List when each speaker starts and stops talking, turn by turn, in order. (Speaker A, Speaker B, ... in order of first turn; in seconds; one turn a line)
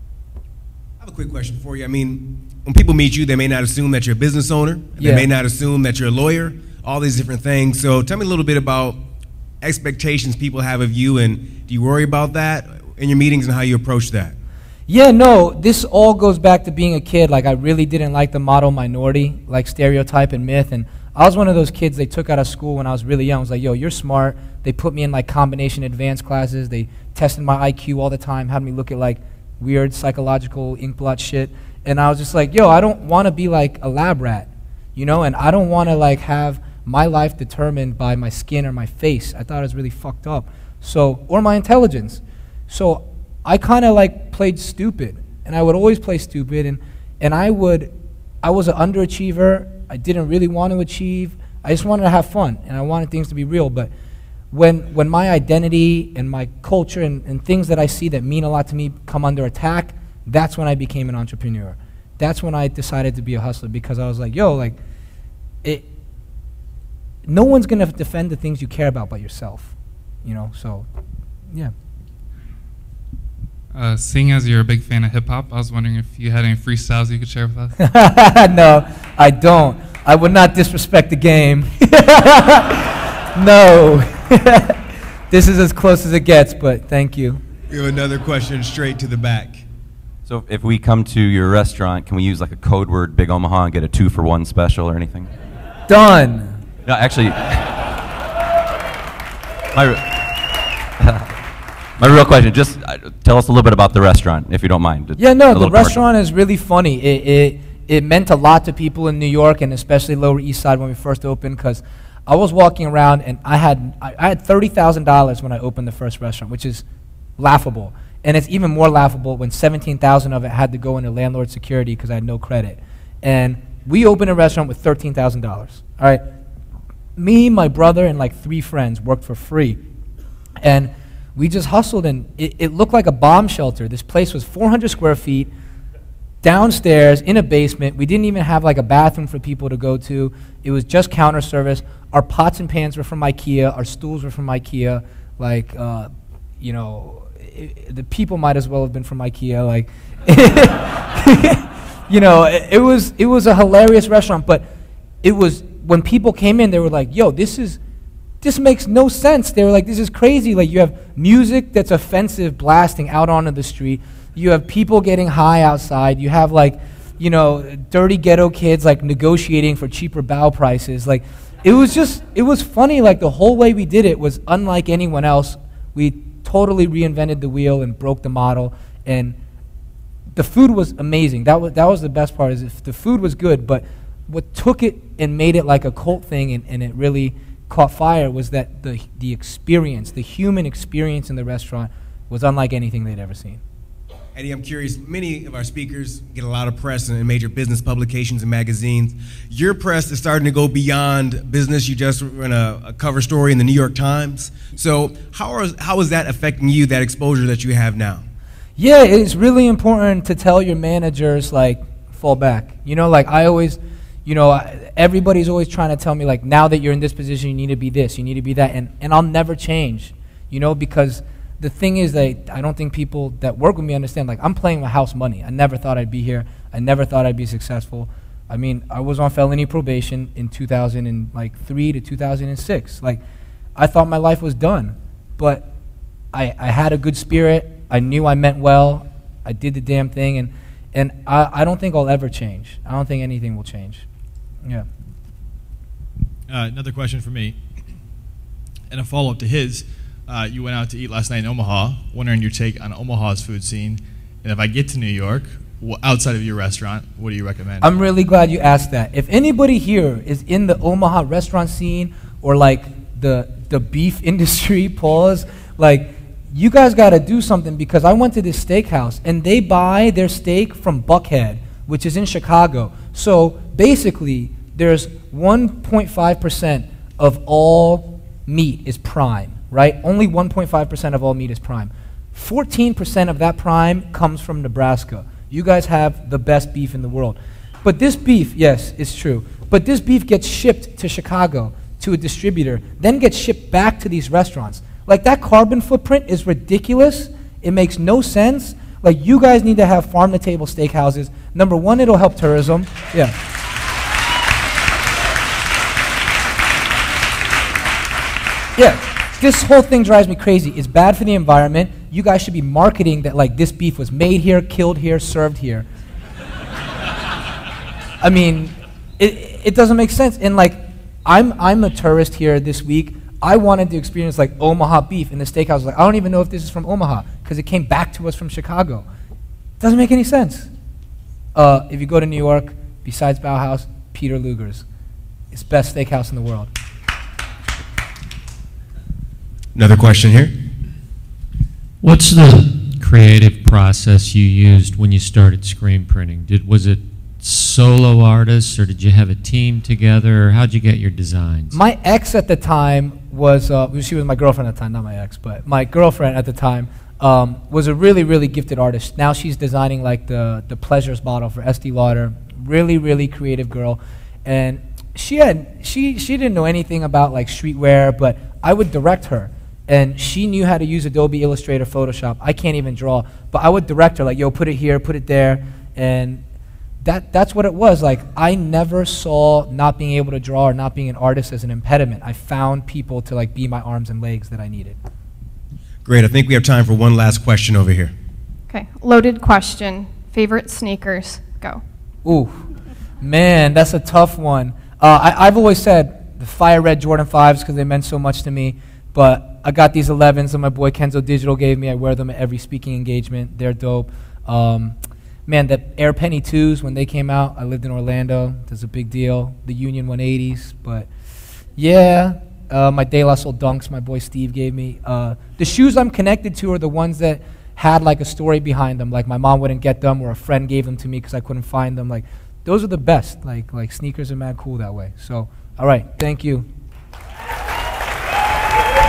Speaker A: 1.0-9.0
Speaker B: 5.0-5.3
Speaker A: 9.6-14.3
Speaker B: 14.9-47.9
Speaker B: 48.4-53.9
Speaker B: 54.5-64.8
Speaker B: 67.3-69.7
Speaker B: 70.2-70.8
Speaker C: 73.7-77.8
Speaker B: 77.8-84.8
Speaker B: 85.3-87.4
Speaker A: 87.7-89.6
Speaker D: 90.3-95.3
Speaker B: 95.9-96.6
Speaker D: 96.8-97.8
Speaker D: 99.7-100.4
Speaker D: 101.0-101.3
Speaker D: 102.0-106.0
Speaker B: 105.2-116.8
Speaker B: 117.4-126.2
Speaker B: 127.2-129.8
Speaker B: 130.6-135.5
Speaker B: 136.4-154.7
Speaker B: 155.2-157.8
Speaker B: 158.4-179.3
Speaker B: 180.3-193.6
Speaker A: 194.3-208.2
Speaker B: 208.8-233.2
Speaker B: 233.8-235.7
Speaker B: 236.3-244.1
Speaker E: 246.5-247.6
Speaker E: 248.9-257.9
Speaker B: 257.8-303.3
Speaker B: 308.8-315.9
Speaker B: 318.2-329.1
Speaker B: 329.8-330.7
Speaker B: 331.6-334.9
Speaker B: 335.5-336.7
Speaker A: 339.8-340.6
Speaker F: 342.0-351.8
Speaker B: 351.7-376.4
Speaker B: 377.0-385.0
Speaker A: 386.1-388.1
Speaker G: 388.7-391.8
Speaker B: 392.2-392.6
Speaker B: 393.2-404.9
Speaker B: 405.5-411.1
Speaker B: 411.8-426.6